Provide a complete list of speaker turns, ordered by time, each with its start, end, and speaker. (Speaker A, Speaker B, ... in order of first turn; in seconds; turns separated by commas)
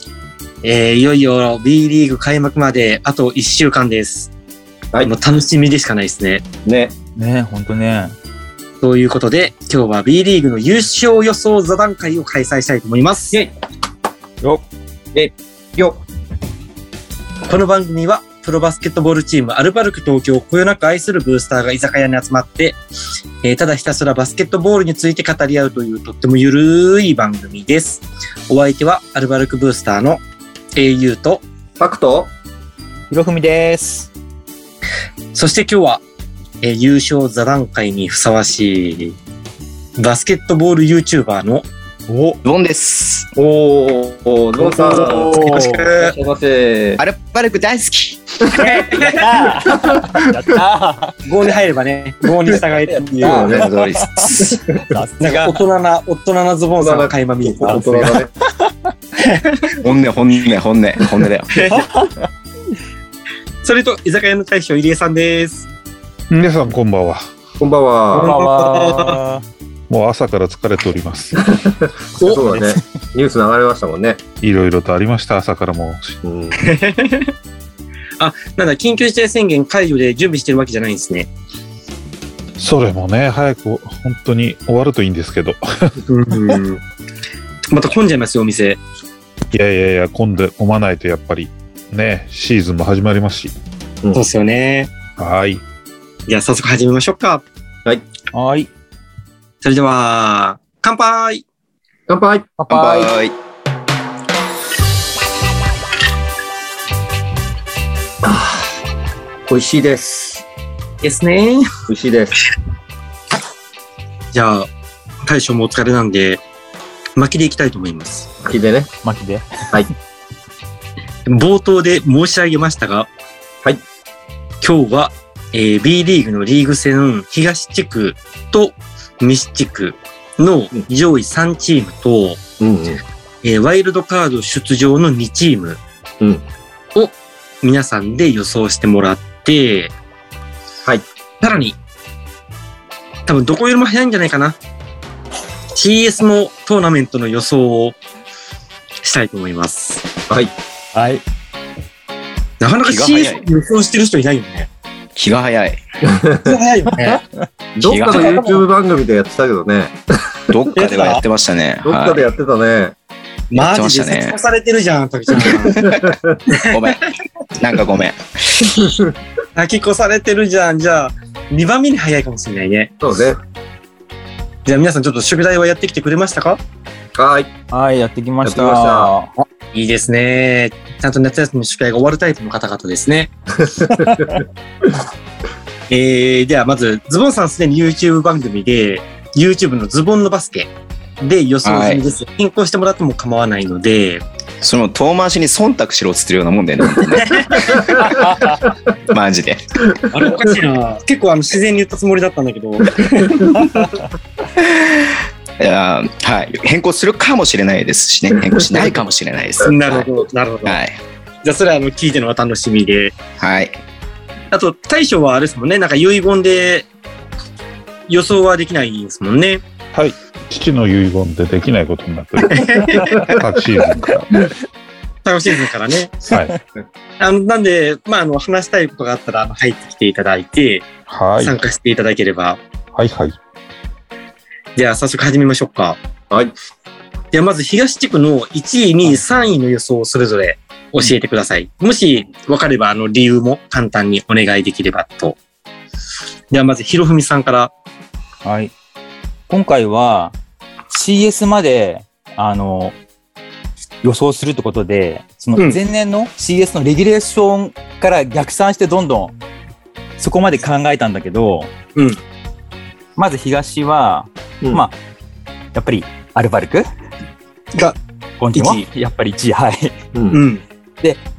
Speaker A: 0.6-4.3, Speaker A: 5.0-6.4, Speaker B: 6.6-6.9, Speaker C: 7.2-8.1, Speaker A: 8.8-13.4, Speaker B: 15.1-16.0, Speaker A: 17.4-22.8, Speaker A: 23.4-30.2, Speaker A: 30.7-31.4, Speaker B: 31.8-32.3, Speaker C: 33.1-34.1, Speaker A: 35.3-36.0, Speaker A: 36.6-39.1, Speaker A: 40.0-41.7, Speaker C: 42.1-42.4, Speaker D: 42.4-43.3, Speaker B: 43.4-45.4, Speaker C: 44.6-45.9, Speaker A: 45.3-46.1, Speaker B: 46.0-47.0, Speaker D: 47.0-48.4, Speaker A: 48.6-49.2, Speaker C: 48.9-51.1, Speaker B: 49.7-50.2, Speaker A: 51.2-53.6, Speaker C: 52.7-55.6, Speaker B: 53.2-53.7, Speaker D: 53.5-54.4, Speaker B: 54.4-54.9, Speaker A: 55.2-58.2, Speaker B: 56.8-58.3, Speaker A: 59.2-59.6, Speaker D: 59.8-61.6, Speaker A: 61.5-61.9, Speaker C: 61.7-62.1, Speaker A: 63.6-65.7, Speaker E: 66.3-67.2, Speaker B: 67.6-68.3, Speaker A: 68.1-69.2, Speaker C: 68.2-69.4, Speaker E: 69.9-71.4, Speaker B: 71.4-74.2, Speaker C: 72.2-72.8, Speaker E: 74.4-76.2, Speaker B: 76.2-76.7, Speaker A: 76.6-77.3, Speaker A: 78.2-81.3, Speaker E: 82.6-86.6, Speaker A: 86.1-86.8, Speaker A: 87.7-88.8, Speaker E: 89.5-93.5, Speaker A: 94.1-94.9, Speaker E: 95.2-95.6, Speaker A: 96.3-97.4, Speaker C: 98.3-98.7, Speaker A: 99.6-101.4, Speaker B: 102.1-102.6, Speaker C: 102.6-103.1, Speaker D: 102.7-103.3, Speaker B: 108.2-108.6, Speaker B: 109.5-110.5, Speaker A: 111.0-111.7, Speaker B: 111.9-112.4, Speaker A: 114.3-114.7, Speaker A: 115.2-116.4, Speaker A: 117.2-118.3, Speaker B: 118.4-118.9, Speaker C: 119.0-119.5, Speaker A: 121.3-123.1, Speaker A: 124.6-132.4, Speaker B: 132.6-133.0, Speaker A: 133.4-135.8, Speaker B: 136.2-136.4, Speaker A: 136.9-139.9, Speaker A: 141.4-141.8, Speaker A: 143.3-144.6, Speaker A: 145.8-148.0, Speaker A: 149.0-150.0, Speaker C: 150.9-151.2, Speaker A: 152.6-154.7, Speaker D: 152.8-153.4, Speaker D: 155.2-155.8, Speaker B: 156.0-156.6, Speaker A: 156.4-157.2, Speaker B: 157.7-159.9, Speaker D: 157.8-158.4, Speaker A: 157.9-158.6, Speaker D: 160.5-162.2, Speaker A: 160.7-161.2, Speaker B: 161.8-162.9, Speaker A: 163.5-165.9, Speaker D: 163.5-164.4, Speaker B: 165.6-166.4, Speaker D: 165.7-166.1, Speaker D: 166.7-168.8, Speaker B: 168.7-169.1, Speaker A: 169.6-172.9, Speaker B: 173.0-173.4, Speaker A: 174.7-176.6, Speaker B: 177.2-177.5, Speaker C: 177.7-179.3, Speaker B: 178.4-179.1, Speaker A: 179.7-183.3, Speaker B: 183.6-184.4, Speaker A: 185.9-190.7, Speaker A: 191.2-194.2, Speaker D: 191.6-192.0, Speaker D: 194.6-199.9, Speaker A: 197.2-197.7, Speaker B: 197.5-198.7, Speaker C: 198.0-198.5, Speaker B: 200.0-200.5, Speaker A: 200.1-203.9, Speaker B: 203.2-203.8, Speaker D: 204.6-210.1, Speaker A: 209.6-210.8, Speaker D: 210.7-211.0, Speaker A: 211.4-213.1, Speaker D: 213.4-213.8, Speaker A: 214.5-216.9, Speaker A: 218.1-219.6, Speaker E: 219.9-224.5, Speaker A: 222.5-223.3, Speaker A: 225.2-226.2, Speaker E: 226.3-226.5, Speaker A: 227.2-232.6, Speaker E: 231.1-231.6, Speaker E: 232.9-233.4, Speaker A: 234.8-236.0, Speaker A: 237.3-245.4, Speaker A: 246.5-247.7, Speaker C: 248.4-248.7, Speaker C: 249.5-250.3, Speaker C: 250.9-253.0, Speaker C: 254.0-259.4, Speaker C: 260.2-261.7, Speaker C: 263.1-265.0, Speaker C: 265.7-266.9, Speaker C: 268.4-270.0, Speaker A: 268.5-268.8, Speaker B: 270.1-270.4, Speaker A: 270.3-270.6